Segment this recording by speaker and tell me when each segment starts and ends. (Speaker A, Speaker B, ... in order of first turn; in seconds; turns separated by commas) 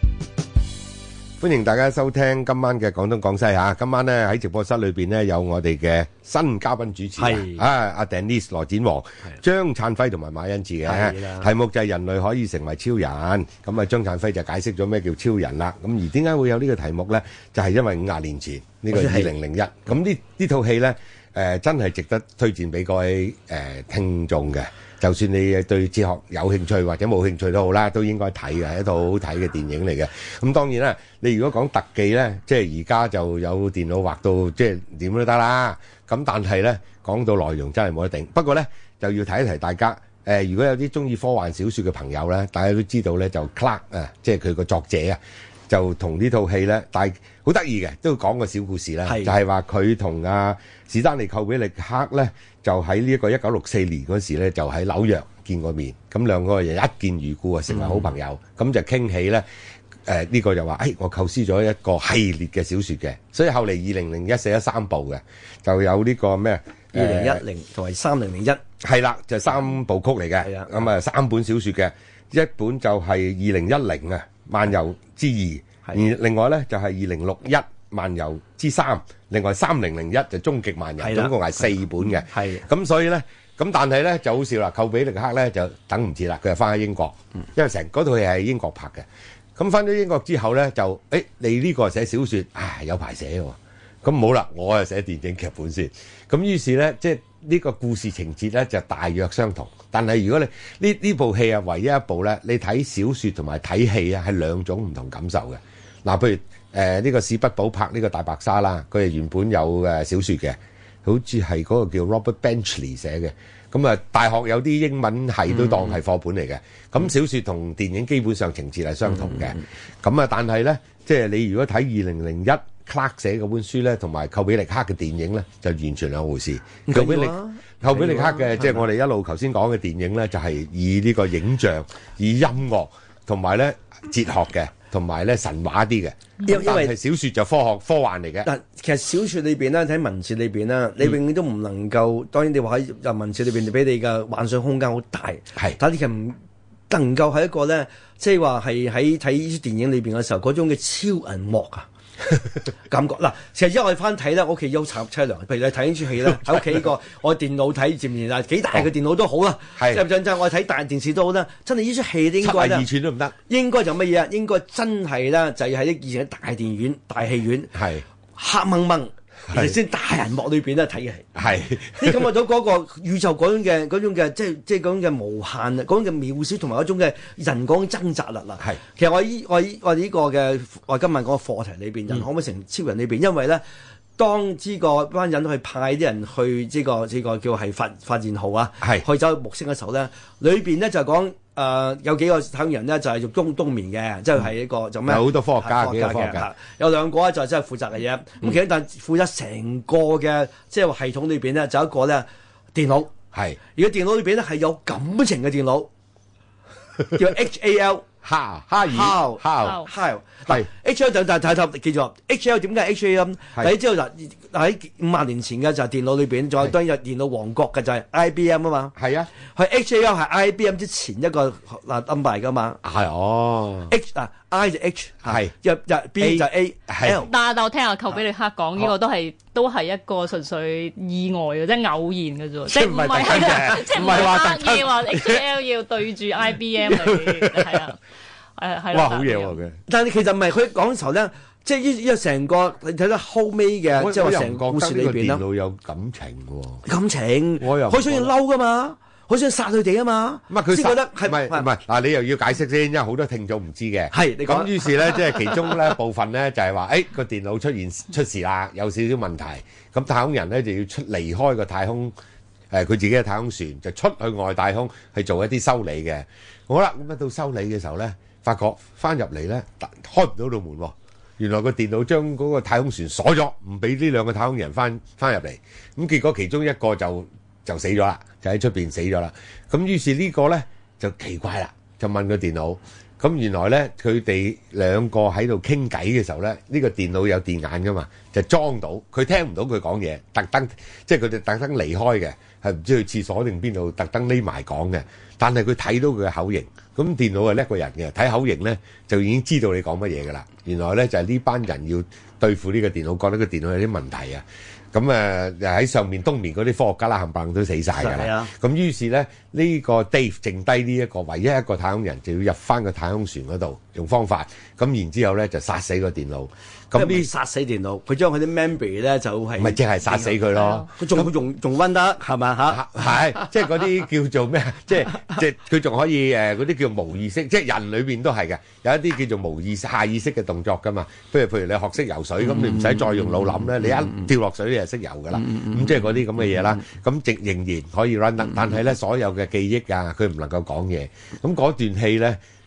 Speaker A: 1.4-59.5, Speaker B: 7.2-7.6, Speaker B: 10.8-11.5, Speaker B: 18.9-19.3, Speaker B: 49.1-49.3, Speaker B: 57.7-58.1, Speaker A: 60.0-67.4, Speaker B: 66.9-68.6, Speaker A: 68.8-138.5, Speaker B: 70.4-70.8, Speaker B: 81.0-81.6, Speaker B: 82.3-82.7, Speaker B: 119.3-119.5, Speaker B: 126.9-128.8, Speaker B: 136.4-136.9, Speaker B: 138.4-146.4, Speaker B: 146.9-151.9, Speaker B: 152.9-162.9, Speaker A: 159.8-160.0, Speaker A: 162.4-163.3, Speaker B: 163.5-167.8, Speaker A: 167.8-168.0, Speaker B: 168.3-171.3, Speaker A: 169.5-169.8, Speaker A: 171.3-172.2, Speaker B: 171.9-183.6, Speaker B: 184.2-203.1, Speaker A: 195.1-196.5, Speaker A: 203.3-203.6, Speaker B: 203.7-205.9, Speaker B: 207.1-208.1, Speaker A: 208.2-209.8, Speaker B: 208.8-222.8, Speaker C: 209.6-209.9, Speaker A: 219.0-219.3, Speaker A: 222.8-223.9, Speaker B: 223.9-227.3, Speaker A: 225.2-225.5, Speaker A: 226.2-227.3, Speaker C: 227.2-238.0, Speaker A: 232.7-235.4, Speaker A: 236.9-237.9, Speaker C: 238.6-239.6, Speaker A: 238.9-239.8, Speaker B: 239.9-245.4, Speaker A: 243.9-246.8, Speaker B: 246.9-251.7, Speaker A: 247.6-248.3, Speaker A: 250.5-262.1, Speaker B: 254.1-255.7, Speaker A: 262.7-317.3, Speaker B: 308.0-308.5, Speaker B: 316.9-323.4, Speaker A: 319.6-321.3, Speaker A: 322.7-342.4